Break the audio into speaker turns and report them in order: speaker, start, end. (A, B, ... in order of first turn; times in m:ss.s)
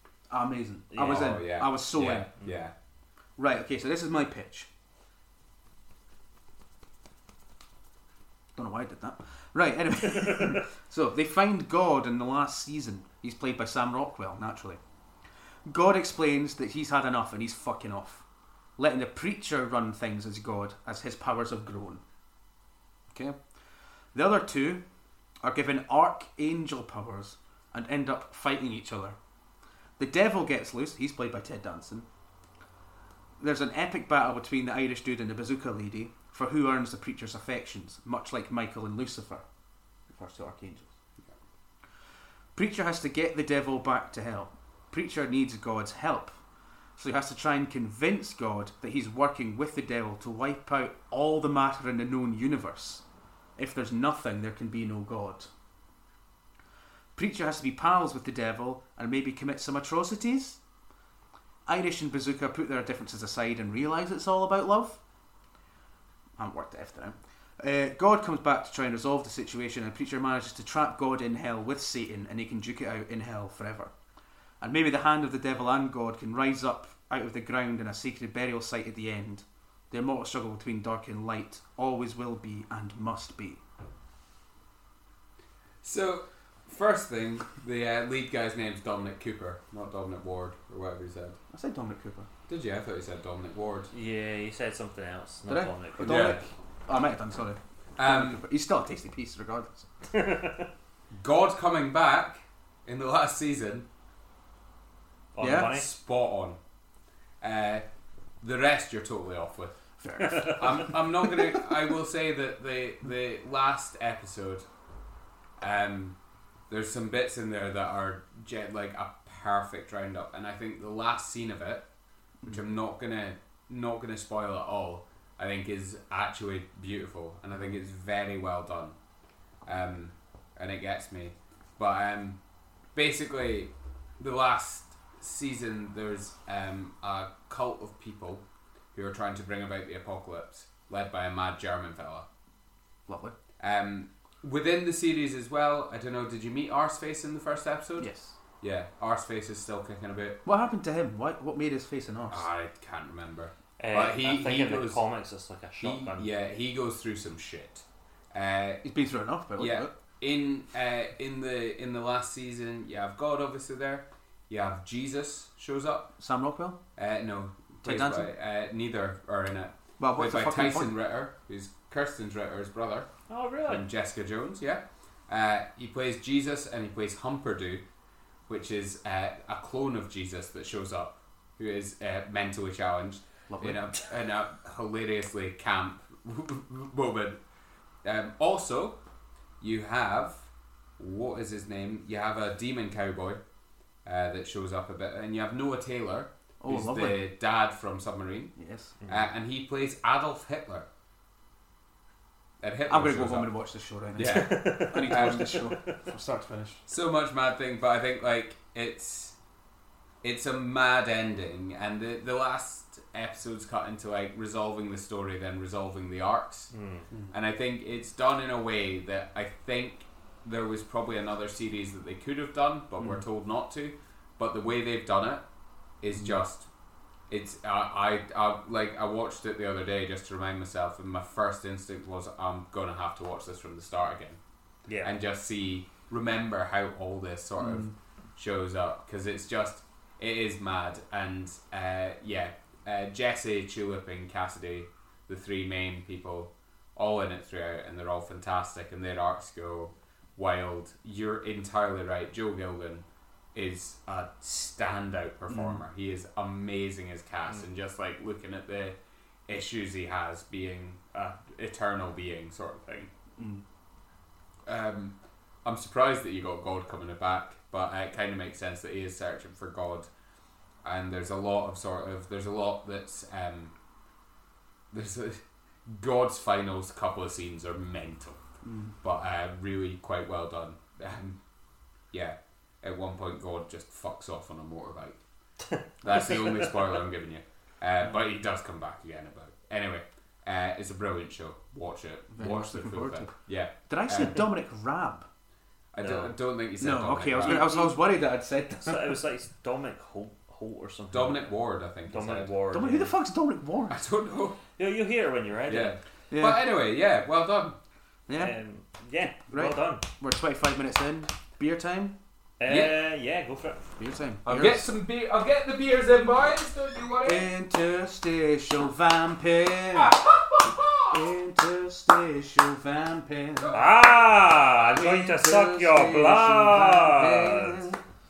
0:00.3-0:02.3 A
0:00.9-0:01.3 B
0:01.0-0:02.7 C
0:03.4-0:04.7 A
0:08.6-0:14.8 A
0:15.6-0:18.2 A
0:18.8-0:22.0 A
0:23.1-0:23.4 A
0:24.1-0:24.8 A
0:25.4-0:29.2 A
0:30.0-0:32.1 A
0:33.4-0:39.4 A
0:40.1-0:40.9 A
0:42.5-0:46.4 A
0:47.0-0:53.0 A
0:53.6-0:55.5 A
0:57.2-1:00.6 A
1:01.6-1:05.0 A
1:06.4-1:13.9 A
1:14.6-1:23.6 A
1:25.8-1:31.4 C
1:31.5-1:32.3 A
1:32.5-1:33.9 C
1:33.9-1:36.4 B
1:35.5-1:39.9 A
1:36.0-1:36.4 C
1:38.0-1:38.4 C
1:40.1-1:40.7 B
1:41.1-1:43.9 C
1:45.3-1:45.9 B
1:45.4-1:45.7 A
1:45.5-1:46.6 C
1:47.4-1:47.8 C
1:48.4-1:54.6 C
1:50.0-1:51.6 A
1:50.2-1:50.6 B
1:55.6-1:56.2 C
1:56.7-2:01.8 C
2:02.4-2:08.9 C
2:09.6-2:12.4 C
2:12.9-2:22.3 C
2:23.1-2:23.4 A
2:23.6-2:28.1 C
2:28.0-2:28.3 A
2:28.6-2:30.4 C
2:30.4-2:32.5 A
2:32.3-2:35.0 C
2:33.8-2:36.3 B
2:35.8-2:38.8 C
2:38.8-2:39.9 A
2:39.6-2:46.1 C
2:46.2-2:46.8 A
2:47.0-2:53.1 C
2:47.8-2:48.3 A
2:50.0-2:50.9 A
2:53.3-2:53.8 B
2:53.7-2:57.8 C
2:58.5-3:07.4 C
3:03.5-3:03.8 A
3:08.0-3:09.0 C
3:09.6-3:13.4 C
3:14.0-3:18.5 C
3:16.6-3:17.2 A
3:18.6-3:19.0 A
3:19.0-3:19.3 B
3:19.1-3:20.9 C
3:22.6-3:23.5 C
3:22.9-3:26.8 A
3:24.1-3:25.7 C
3:24.2-3:26.0 B
3:26.9-3:29.4 C
3:30.2-3:36.7 C
3:36.7-3:37.1 B
3:37.3-3:45.4 C
3:46.0-3:46.7 C
3:46.1-3:46.4 A
3:47.3-3:54.4 C
3:55.0-4:19.0 C
3:57.6-3:57.9 A
4:15.5-4:15.8 A
4:19.5-4:23.1 C
4:23.4-4:23.6 A
4:24.6-4:30.1 C
4:30.8-4:33.7 C
4:34.9-4:38.4 C
4:38.6-4:38.9 A
4:39.0-4:41.4 C
4:42.1-4:45.2 C
4:45.6-4:47.0 B
4:46.0-4:54.4 C
4:52.3-4:53.3 A
4:53.9-4:55.3 A
4:55.9-4:57.6 C
4:56.0-4:56.3 B
4:56.8-4:59.2 A
4:57.4-4:58.0 B
4:58.7-5:01.5 B
5:01.1-5:02.5 C
5:02.1-5:03.1 B
5:02.7-5:04.0 A
5:03.9-5:04.6 C
5:04.8-5:06.0 B
5:05.7-5:07.8 C
5:06.3-5:06.6 A
5:08.3-5:08.6 A
5:08.3-5:10.0 B
5:09.5-5:12.2 A
5:12.6-5:13.8 B
5:12.7-5:13.0 C
5:14.0-5:14.9 A
5:14.4-5:17.5 C
5:17.2-5:20.2 A
5:19.9-5:21.2 C
5:21.1-5:23.8 A
5:23.6-5:24.0 C
5:23.7-5:27.8 B
5:24.9-5:28.0 A